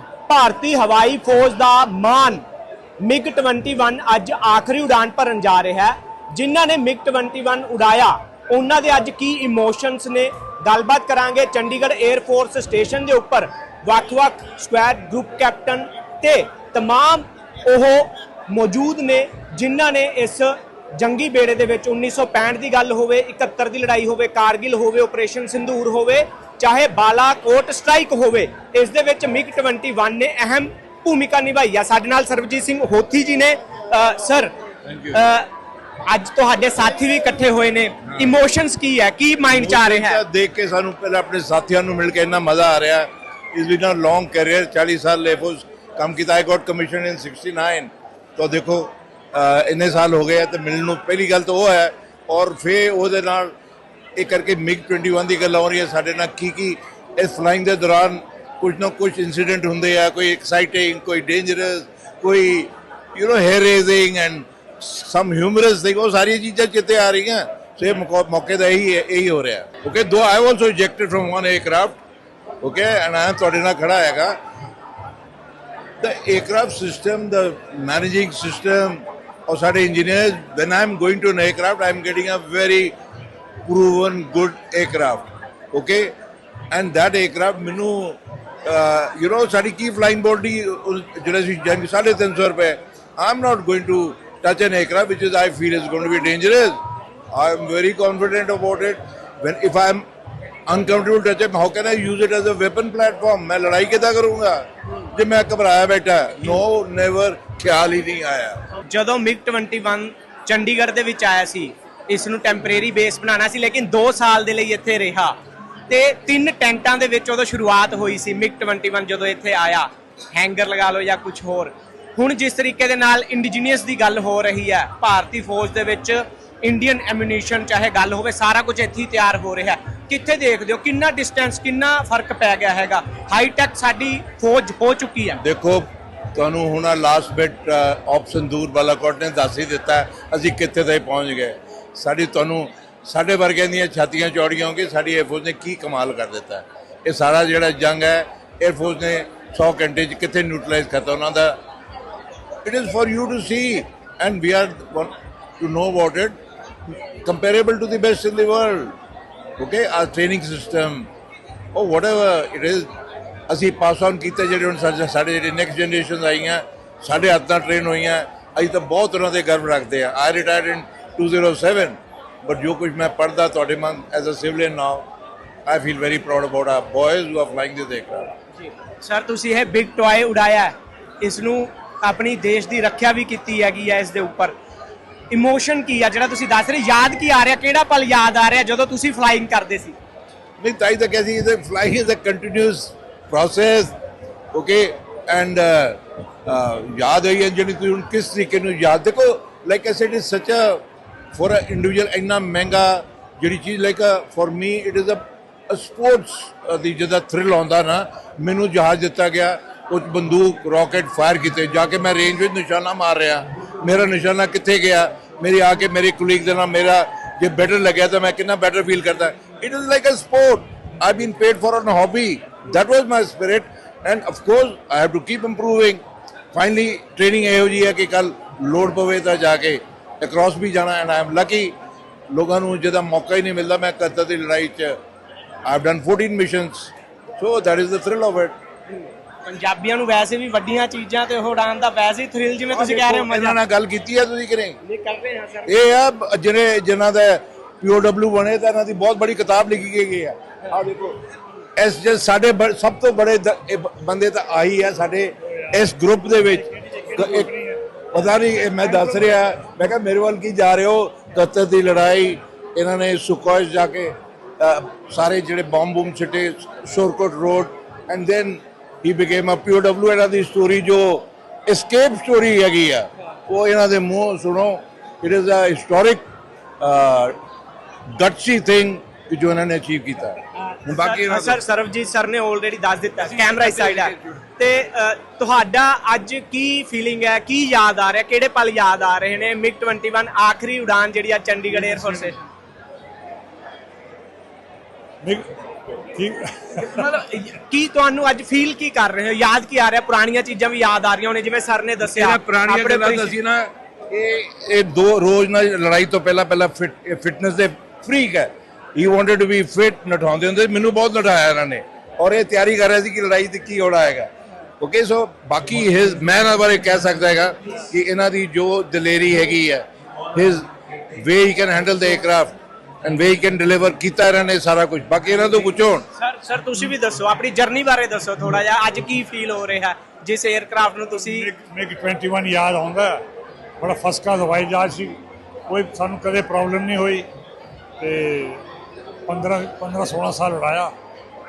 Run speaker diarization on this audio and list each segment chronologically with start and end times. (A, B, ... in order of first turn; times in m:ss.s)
0:00.3-0:02.4 A
0:03.0-0:34.5 A
0:34.9-0:35.2 B
0:35.1-0:35.5 A
0:36.1-0:40.2 A
0:39.5-0:53.5 B
0:54.2-1:12.0 B
1:12.6-1:14.4 B
1:16.0-1:22.9 B
1:23.6-1:26.1 B
1:26.7-1:36.8 B
1:37.3-1:40.0 B
1:40.7-1:48.6 B
1:48.9-1:55.3 A
1:55.9-2:15.4 A
2:15.4-2:31.6 B
2:32.6-2:36.3 B
2:37.2-2:38.9 B
2:39.6-2:41.1 B
2:41.7-2:42.9 B
2:43.5-2:55.0 B
2:55.7-2:58.3 B
2:58.6-3:04.5 A
3:05.3-3:10.0 A
3:10.6-3:13.9 B
3:14.5-3:20.8 B
3:21.3-3:46.0 B
3:46.5-3:51.7 B
3:52.3-3:55.0 B
3:55.6-3:58.5 B
3:58.9-4:03.6 A
4:02.7-4:04.8 B
4:04.8-4:05.7 A
4:05.7-4:11.2 B
4:11.8-4:17.5 B
4:16.8-4:17.8 C
4:18.1-4:36.2 B
4:36.8-4:37.3 B
4:38.2-4:41.6 B
4:40.9-4:52.4 A
4:43.2-4:44.4 B
4:51.7-4:52.3 C
4:56.0-4:57.0 C
4:56.8-5:03.3 A
5:02.0-5:26.0 B
5:26.2-5:31.5 A
5:31.2-5:33.2 C
5:33.8-5:37.3 C
5:38.0-5:38.6 C
5:39.3-5:40.9 C